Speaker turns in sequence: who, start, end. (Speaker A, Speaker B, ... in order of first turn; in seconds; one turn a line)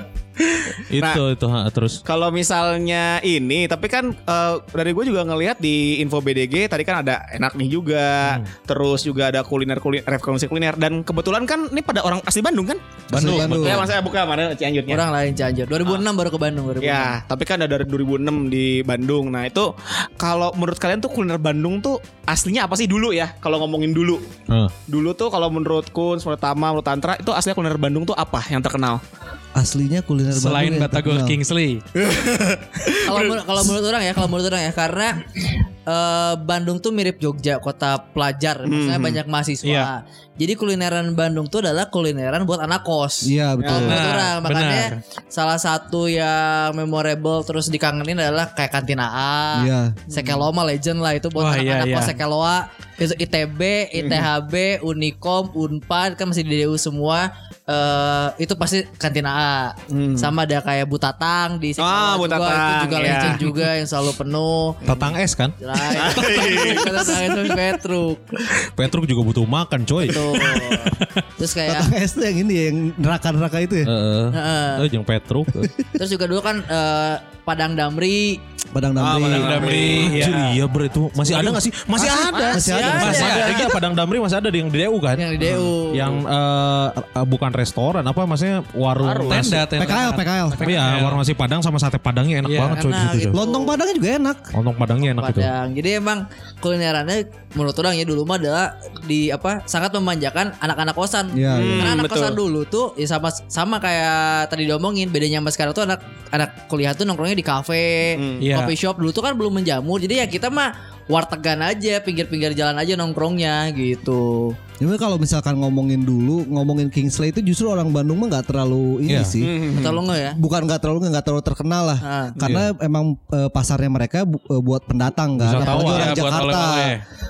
Speaker A: 0.5-1.2
Speaker B: 0.9-2.0
Speaker A: 2.0-15.0
Speaker C: 13.1-13.9
Speaker B: 13.2-13.8
Speaker D: 14.9-17.2
Speaker A: 16.8-24.3
Speaker B: 24.5-24.7
Speaker A: 24.9-29.0
Speaker C: 29.6-31.4
Speaker E: 30.3-31.8
Speaker A: 32.0-33.4
Speaker D: 33.0-35.3
Speaker D: 35.9-64.8
Speaker A: 38.7-39.2
Speaker E: 39.6-39.9
Speaker C: 43.2-44.0
Speaker A: 43.6-44.0
Speaker E: 43.8-45.0
Speaker C: 49.5-50.0
Speaker A: 50.1-50.4
Speaker E: 51.4-52.2
Speaker A: 59.9-60.3
Speaker A: 61.8-63.6
Speaker B: 64.8-65.6
Speaker A: 64.9-65.1
Speaker D: 65.6-68.4
Speaker A: 65.9-67.2
Speaker B: 68.7-70.6
Speaker D: 70.0-71.9
Speaker E: 70.9-71.2
Speaker C: 71.7-73.9
Speaker B: 73.8-75.7
Speaker D: 74.3-74.9
Speaker D: 76.0-78.4
Speaker C: 78.7-79.8
Speaker A: 79.0-80.5
Speaker E: 79.3-80.5
Speaker B: 79.9-89.7
Speaker A: 82.0-83.6
Speaker D: 82.4-83.5
Speaker C: 82.5-83.5
Speaker E: 82.9-83.7
Speaker D: 85.2-86.2
Speaker A: 89.0-89.6
Speaker E: 89.2-91.2
Speaker C: 89.8-90.6
Speaker B: 90.6-93.4
Speaker E: 92.5-92.8
Speaker D: 92.7-93.8
Speaker C: 93.3-94.5
Speaker B: 94.5-95.5
Speaker D: 95.0-114.6
Speaker C: 101.3-102.0
Speaker A: 101.5-102.4
Speaker A: 108.2-108.5
Speaker E: 108.4-108.7
Speaker C: 114.8-119.5
Speaker B: 119.1-119.4
Speaker A: 119.4-120.0
Speaker D: 119.7-120.4
Speaker C: 120.3-127.0
Speaker D: 122.0-122.4
Speaker B: 122.4-122.7
Speaker B: 125.4-126.2
Speaker E: 125.6-127.0